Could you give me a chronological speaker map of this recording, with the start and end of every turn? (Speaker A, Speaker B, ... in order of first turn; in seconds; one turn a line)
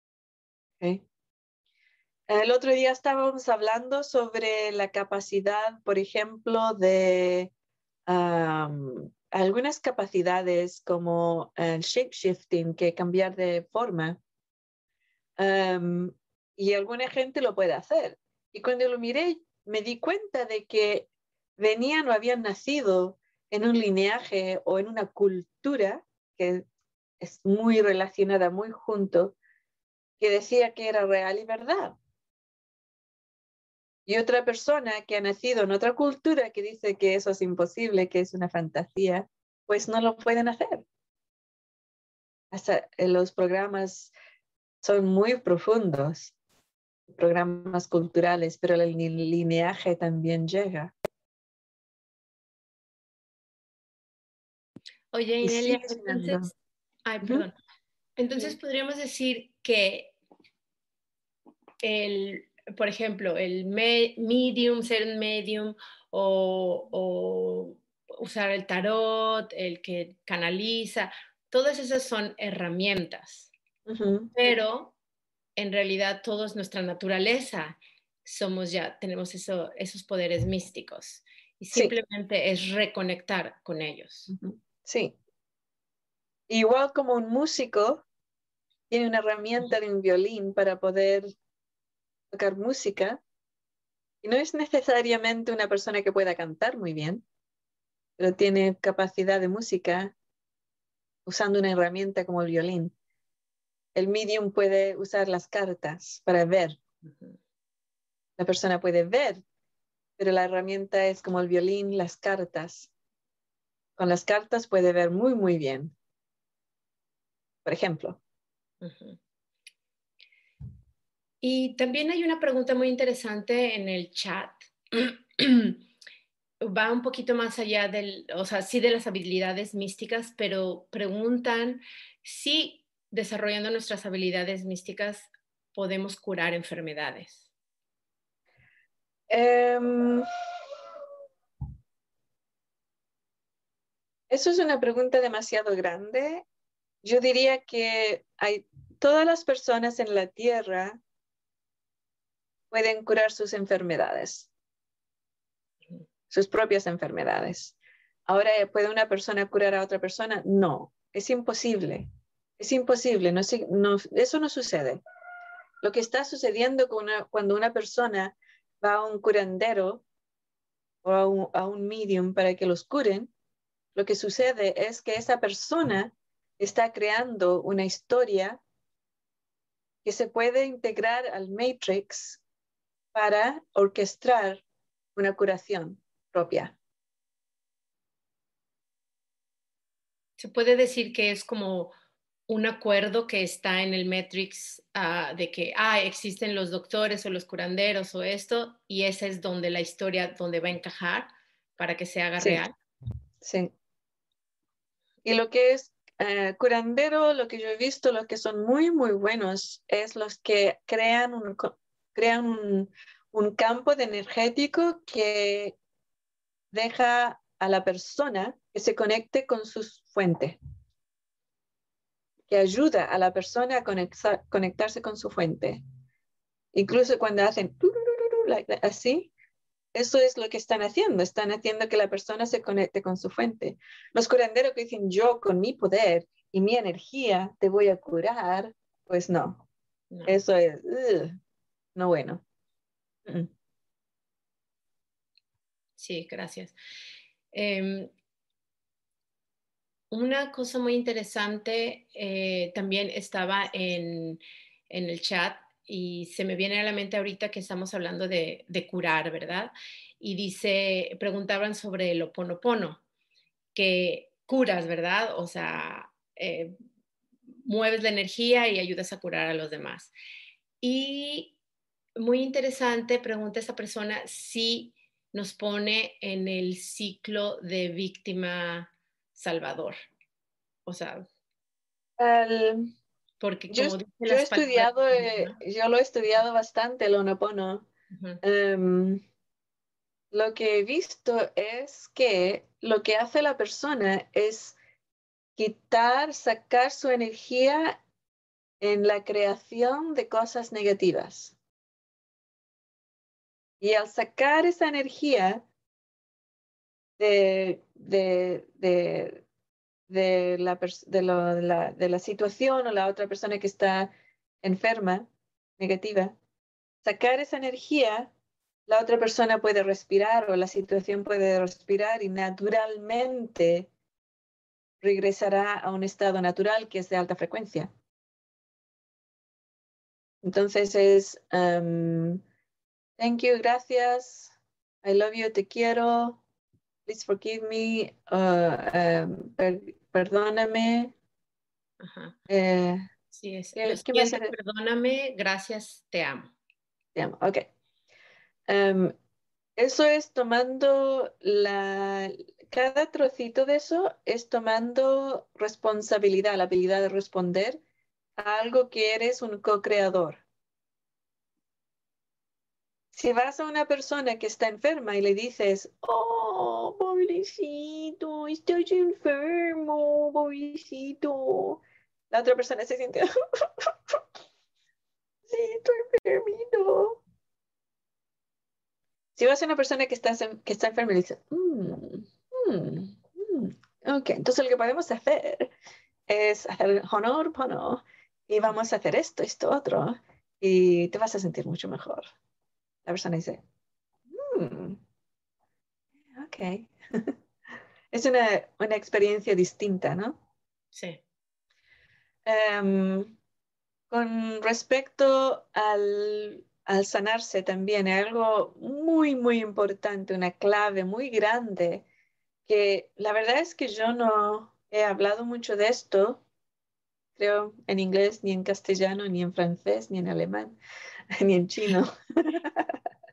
Speaker A: 2.3-7.5
Speaker A: 8.1-14.2
Speaker A: 15.4-26.6
Speaker A: 27.2-29.4
Speaker A: 30.2-31.9
Speaker A: 34.0-40.9
Speaker A: 42.5-44.1
Speaker A: 44.8-46.3
Speaker A: 47.1-50.9
Speaker B: 55.1-56.5
Speaker A: 55.4-56.5
Speaker B: 57.0-57.5
Speaker B: 58.2-60.1
Speaker B: 61.8-73.5
Speaker A: 73.9-74.5
Speaker B: 74.3-74.9
Speaker B: 75.6-84.3
Speaker A: 84.3-85.2
Speaker A: 86.5-88.0
Speaker A: 88.9-91.3
Speaker A: 92.3-93.2
Speaker A: 94.2-97.2
Speaker A: 98.2-100.1
Speaker A: 101.2-102.9
Speaker A: 103.9-106.8
Speaker B: 107.0-107.3
Speaker A: 108.4-109.4
Speaker A: 110.2-112.9
Speaker A: 114.0-115.9
Speaker A: 117.6-118.2
Speaker B: 118.8-119.2
Speaker B: 121.4-125.8
Speaker B: 126.6-137.4
Speaker A: 139.3-140.2
Speaker A: 144.3-146.4
Speaker A: 147.0-151.0
Speaker A: 152.7-154.5
Speaker A: 156.3-157.7
Speaker A: 158.3-162.1
Speaker A: 162.6-165.0
Speaker A: 165.8-170.0
Speaker A: 171.0-173.3
Speaker A: 173.9-178.6
Speaker A: 180.0-182.4
Speaker A: 183.1-184.6
Speaker A: 185.2-186.8
Speaker B: 190.4-191.9
Speaker B: 192.5-202.7
Speaker A: 202.4-202.6
Speaker A: 203.4-203.7
Speaker A: 205.2-215.7
Speaker A: 216.7-220.6
Speaker A: 222.5-225.8
Speaker A: 226.7-229.3
Speaker A: 229.9-239.6
Speaker A: 240.2-241.4
Speaker A: 241.9-242.4
Speaker B: 246.0-246.7
Speaker B: 247.5-248.1
Speaker B: 250.1-263.0
Speaker B: 263.7-266.7
Speaker B: 267.6-270.1
Speaker B: 270.8-271.6
Speaker B: 272.2-279.9
Speaker B: 280.9-281.2
Speaker A: 282.2-282.9
Speaker B: 283.4-285.6
Speaker A: 283.7-287.9
Speaker B: 288.1-288.4
Speaker A: 288.4-289.2
Speaker A: 290.3-294.8
Speaker A: 295.6-298.0
Speaker A: 298.8-301.5
Speaker A: 303.8-305.6
Speaker A: 307.2-309.4
Speaker A: 310.1-314.1
Speaker A: 314.6-316.4
Speaker A: 317.0-318.3
Speaker A: 318.9-323.9
Speaker A: 325.0-327.9
Speaker A: 330.4-332.4
Speaker A: 333.2-336.4
Speaker A: 337.1-341.1
Speaker B: 342.0-342.3
Speaker A: 342.5-343.1
Speaker B: 343.4-346.5
Speaker A: 343.8-344.5
Speaker A: 347.1-347.7
Speaker A: 348.7-349.1
Speaker A: 349.8-357.8
Speaker A: 358.4-360.4
Speaker A: 363.1-374.2
Speaker A: 375.5-377.2
Speaker A: 379.4-385.7
Speaker A: 386.3-392.3
Speaker A: 393.0-393.6
Speaker A: 394.3-395.0
Speaker A: 396.3-397.3
Speaker A: 398.1-400.4
Speaker B: 400.9-401.2
Speaker A: 402.4-403.4
Speaker A: 404.1-412.1
Speaker A: 412.6-416.4
Speaker A: 417.4-420.8
Speaker A: 421.3-423.0